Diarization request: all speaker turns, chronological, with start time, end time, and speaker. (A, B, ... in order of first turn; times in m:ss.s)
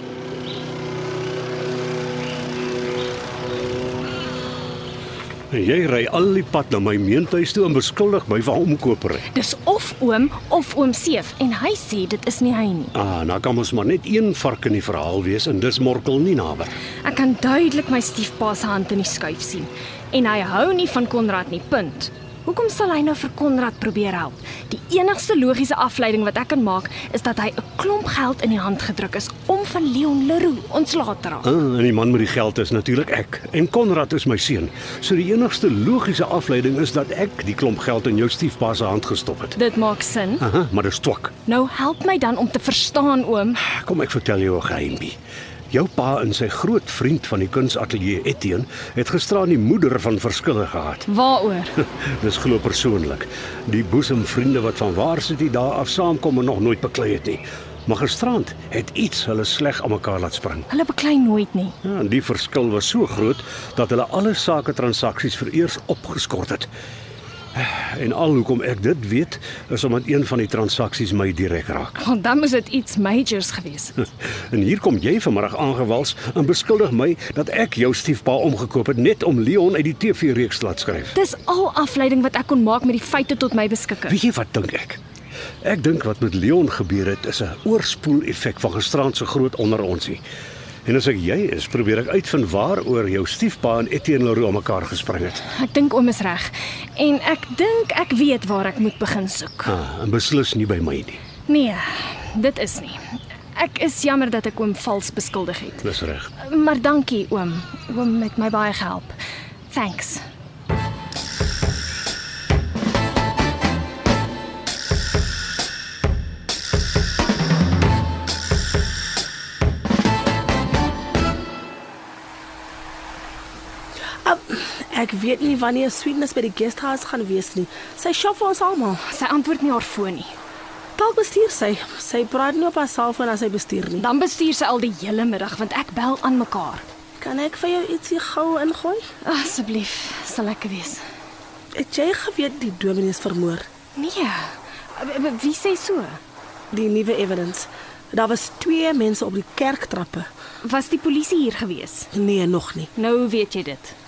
0:05.5-0:09.2 A
0:09.3-0:12.9 B
0:12.9-0:16.8 A
0:17.0-0:31.5 B
0:31.4-0:39.6 A
0:39.6-0:40.5 B
0:40.4-0:41.4 A
0:41.4-0:43.6 B
0:43.6-0:45.2 A
0:45.7-0:51.1 A
0:51.1-0:51.8 B
0:51.9-1:00.7 A
1:00.7-1:01.8 B
1:01.8-1:06.7 A
1:07.5-1:12.0 A
1:12.0-1:14.0 B
1:14.5-1:21.2 A
1:21.1-1:24.2 B
1:24.1-1:25.0 A
1:25.6-1:30.2 A
1:30.8-1:35.4 A
1:35.5-1:39.8 B
1:39.7-1:41.2 A
1:41.5-1:43.0 B
1:43.6-1:45.9 B
1:45.8-1:46.3 A
1:46.4-1:49.1 B
1:49.7-1:50.2 B
2:04.2-2:09.0 C
2:09.1-2:10.4 B
2:11.0-2:14.0 C
2:14.0-2:16.8 B
2:17.2-2:19.0 C
2:19.2-2:21.0 B
2:21.8-2:23.6 C
2:24.0-2:26.2 B
2:26.7-2:30.3 C
2:30.6-2:32.1 B
2:32.1-2:32.9 C
2:32.9-2:33.9 B